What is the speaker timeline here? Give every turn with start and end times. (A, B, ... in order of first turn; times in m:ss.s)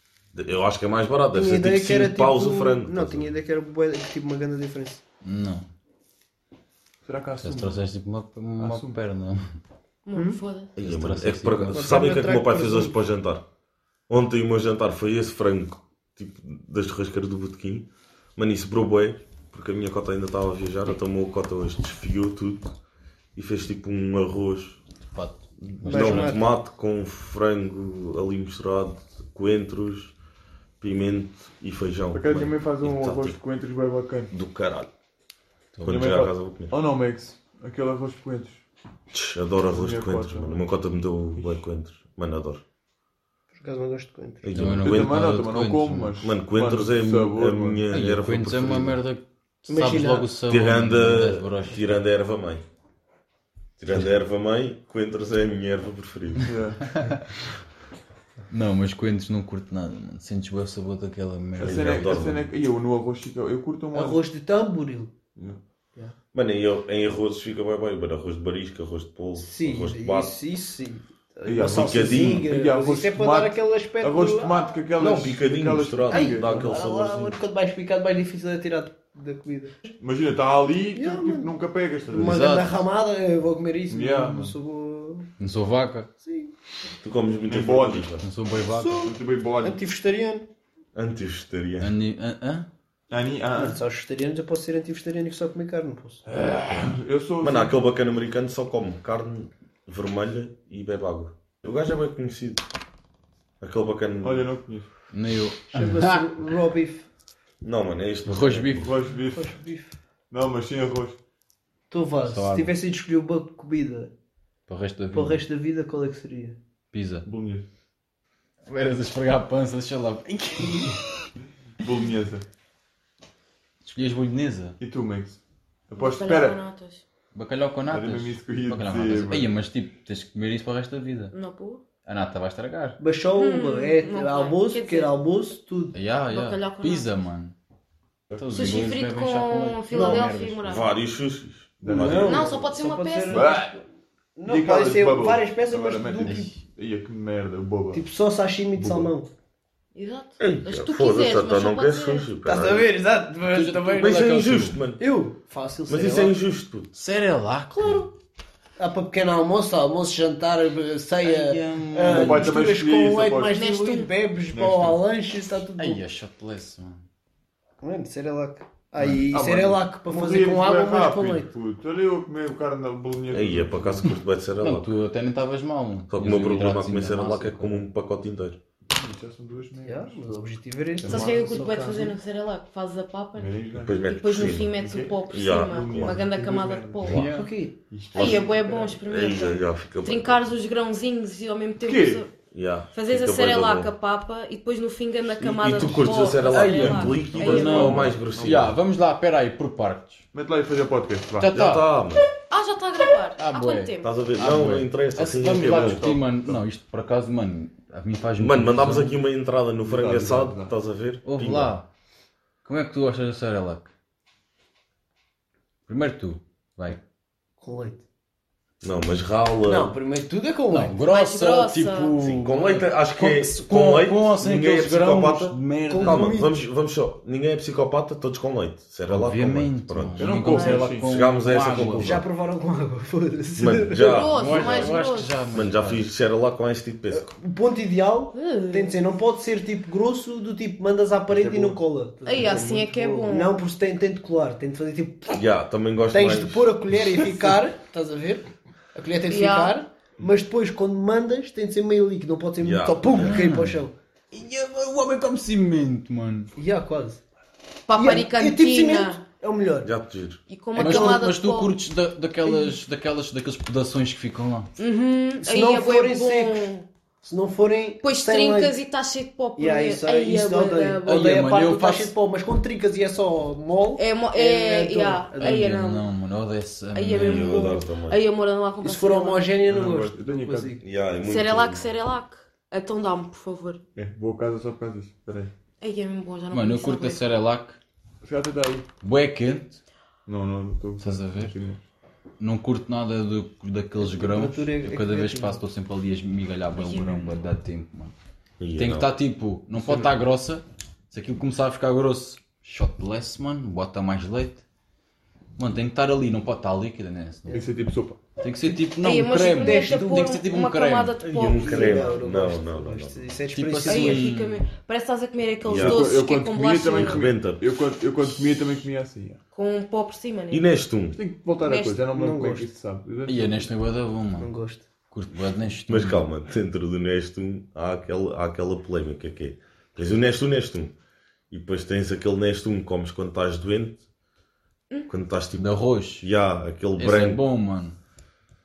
0:00.3-0:03.4 A
0:01.3-0:05.0 B
0:05.2-0:05.7 C
0:07.0-0:07.8 D
0:07.4-0:09.5 C
0:08.6-0:09.0 D
0:10.0-0:10.7 E
0:10.1-0:10.4 B
0:10.8-0:13.4 A
0:10.8-0:12.0 C
0:11.7-0:12.9 B
0:14.1-0:22.7 A
0:23.3-0:24.8 A
0:25.1-0:26.4 C
0:25.6-0:30.1 A
0:25.8-0:26.5 B
0:30.8-0:33.4 A
0:32.1-0:34.3 D
0:34.3-0:34.9 A
0:35.7-0:36.0 C
0:35.8-0:36.7 A
0:35.8-0:38.6 D
0:39.1-0:42.6 A
0:39.7-0:40.6 D
0:41.4-0:41.6 D
0:43.5-0:44.5 B
0:44.4-0:45.2 A
0:44.5-0:46.1 C
0:44.8-0:47.8 D
0:46.2-0:49.0 A
0:47.9-0:51.9 C
0:49.7-0:50.3 B
0:50.5-0:52.6 A
0:53.8-0:56.5 A
0:56.4-0:56.9 D
0:56.8-0:57.2 C
0:58.5-1:02.2 C
1:01.6-1:04.2 D
1:01.6-1:02.5 A
1:03.9-1:05.1 B
1:06.3-1:10.3 A
1:09.4-1:14.8 B
1:11.4-1:16.8 D
1:11.6-1:12.5 A
1:15.0-1:17.4 A
1:16.1-1:19.9 B
1:20.0-1:22.4 D
1:20.9-1:21.5 B
1:22.1-1:25.3 B
1:22.1-1:22.8 C
1:23.9-1:24.5 D
1:25.4-1:26.1 C
1:26.2-1:26.5 B
1:27.0-1:28.2 A
1:27.5-1:28.1 D
1:28.2-1:29.1 C
1:28.7-1:30.5 B
1:29.0-1:29.8 D
1:30.9-1:31.9 A
1:31.8-1:32.7 C
1:33.1-1:33.8 D
1:33.5-1:36.2 B
1:36.2-1:37.8 D
1:37.4-1:42.6 A
1:43.6-1:44.5 A
1:44.2-1:44.9 D
1:45.1-1:46.3 C
1:45.7-1:47.1 B
1:47.6-1:48.9 A
1:48.3-1:48.9 C
1:48.8-1:49.5 D
1:49.3-1:49.9 B
1:50.3-1:51.2 D
1:51.9-1:54.1 B
1:52.2-1:52.7 C
1:54.7-1:55.4 C
1:55.1-1:56.6 B
1:56.9-1:57.2 C
1:57.2-1:57.6 D
1:58.6-2:01.3 C
2:01.8-2:02.4 D
2:03.8-2:04.8 C
2:04.8-2:05.4 D
2:05.9-2:06.6 D
2:05.9-2:07.0 E
2:07.3-2:11.3 C
2:07.9-2:09.5 D
2:11.3-2:11.8 E
2:12.0-2:13.0 C
2:13.0-2:16.0 B
2:13.3-2:15.1 E
2:15.9-2:17.5 C
2:16.3-2:17.1 E
2:18.3-2:18.8 D
2:18.4-2:20.7 C
2:18.5-2:20.9 E
2:19.9-2:20.3 B
2:20.6-2:22.4 A
2:21.8-2:22.5 D
2:21.9-2:23.8 B
2:22.2-2:23.5 E
2:23.2-2:23.8 D
2:24.4-2:26.5 B
2:24.4-2:28.0 D
2:26.2-2:26.6 C
2:27.9-2:29.3 B
2:28.7-2:29.1 D
2:29.9-2:32.3 E
2:30.4-2:32.9 A
2:32.4-2:34.1 B
2:32.5-2:34.8 C
2:33.9-2:35.0 A
2:35.0-2:36.4 B
2:35.9-2:36.9 A
2:36.9-2:38.1 C
2:37.7-2:38.1 B
2:38.8-2:46.0 B
2:41.2-2:42.6 C
2:42.0-2:43.6 D
2:43.5-2:44.1 E
2:44.5-2:45.0 D
2:45.8-2:47.0 C
2:47.8-2:51.5 B
2:49.0-2:54.1 D
2:53.3-2:54.9 A
2:54.6-2:57.8 C
2:56.1-2:58.6 A
2:58.9-3:00.2 D
2:59.8-3:02.1 B
3:01.0-3:01.5 D
3:01.0-3:07.2 E
3:03.3-3:09.0 D
3:03.8-3:04.7 A
3:05.3-3:06.2 A
3:07.2-3:07.4 C
3:07.2-3:07.8 B
3:08.1-3:08.4 A
3:08.1-3:12.3 E
3:09.0-3:10.4 A
3:11.8-3:12.2 D
3:12.5-3:13.9 A
3:12.9-3:18.1 E
3:15.4-3:18.7 A
3:16.4-3:20.2 C
3:17.3-3:18.7 D
3:20.3-3:21.6 D
3:21.4-3:21.9 C
3:21.5-3:22.2 A
3:22.5-3:24.1 E
3:23.4-3:29.1 C
3:24.0-3:26.1 A
3:25.5-3:26.6 D
3:28.4-3:31.7 A
3:29.8-3:30.7 D
3:31.2-3:31.8 C
3:32.6-3:33.9 C
3:35.9-3:37.0 C
3:37.6-3:38.0 B
3:38.8-3:39.9 A
3:39.6-3:41.0 B
3:40.7-3:46.4 C
3:41.1-3:42.1 E
3:42.2-3:50.3 A
3:45.9-3:46.6 B
3:49.1-3:52.2 C
3:50.2-3:51.1 D
3:50.5-3:50.8 E
3:50.9-3:52.2 A
3:51.9-3:54.3 B
3:53.6-3:55.0 A
3:54.0-3:55.3 E
3:54.3-3:56.0 C
3:55.5-3:57.3 A
3:57.1-4:05.4 B
3:58.3-3:59.0 E
4:01.3-4:01.8 D
4:02.2-4:03.6 E
4:05.3-4:06.7 A
4:06.1-4:13.9 B
4:09.3-4:09.8 E
4:12.6-4:13.4 A
4:13.2-4:13.8 C
4:14.3-4:16.5 C
4:16.6-4:17.2 B
4:17.9-4:19.2 E
4:17.9-4:19.9 B
4:19.8-4:20.4 A
4:20.5-4:21.7 E
4:20.8-4:21.2 B
4:20.8-4:24.7 C
4:22.4-4:22.8 B
4:24.8-4:26.8 E
4:25.4-4:26.7 B
4:27.2-4:28.7 B
4:28.0-4:31.4 E
4:29.6-4:35.7 B
4:31.0-4:32.1 C
4:34.0-4:36.1 E
4:35.4-4:37.7 C
4:36.9-4:39.5 E
4:37.2-4:38.2 A
4:38.8-4:40.8 B
4:39.6-4:40.7 D
4:40.8-4:41.9 A
4:41.2-4:43.8 E
4:44.0-4:45.5 D
4:45.8-4:47.3 E
4:46.5-4:47.8 C
4:48.2-4:48.8 D
4:49.0-4:49.8 C
4:50.2-4:51.8 D
4:51.0-4:51.5 C
4:52.4-4:58.1 C
4:54.0-4:55.6 B
4:56.8-4:57.2 E
4:58.6-4:59.1 A
4:58.8-5:04.6 C
4:59.7-5:00.2 D
5:05.6-5:07.6 C
5:07.5-5:08.2 D
5:08.4-5:11.1 C
5:09.0-5:12.2 E
5:09.5-5:10.4 B
5:11.2-5:13.3 A
5:11.4-5:14.3 B
5:13.5-5:14.6 C
5:13.8-5:17.2 E
5:15.6-5:16.0 A
5:15.7-5:19.4 D
5:16.9-5:17.6 A
5:19.5-5:20.6 E
5:20.5-5:21.2 A
5:21.1-5:23.7 D
5:21.6-5:22.0 E
5:22.1-5:22.7 B
5:23.2-5:24.5 C
5:24.4-5:24.8 B
5:25.1-5:26.2 C
5:25.9-5:30.9 A
5:31.5-5:34.0 A
5:35.1-5:37.4 A
5:35.6-5:36.3 C
5:37.0-5:38.0 C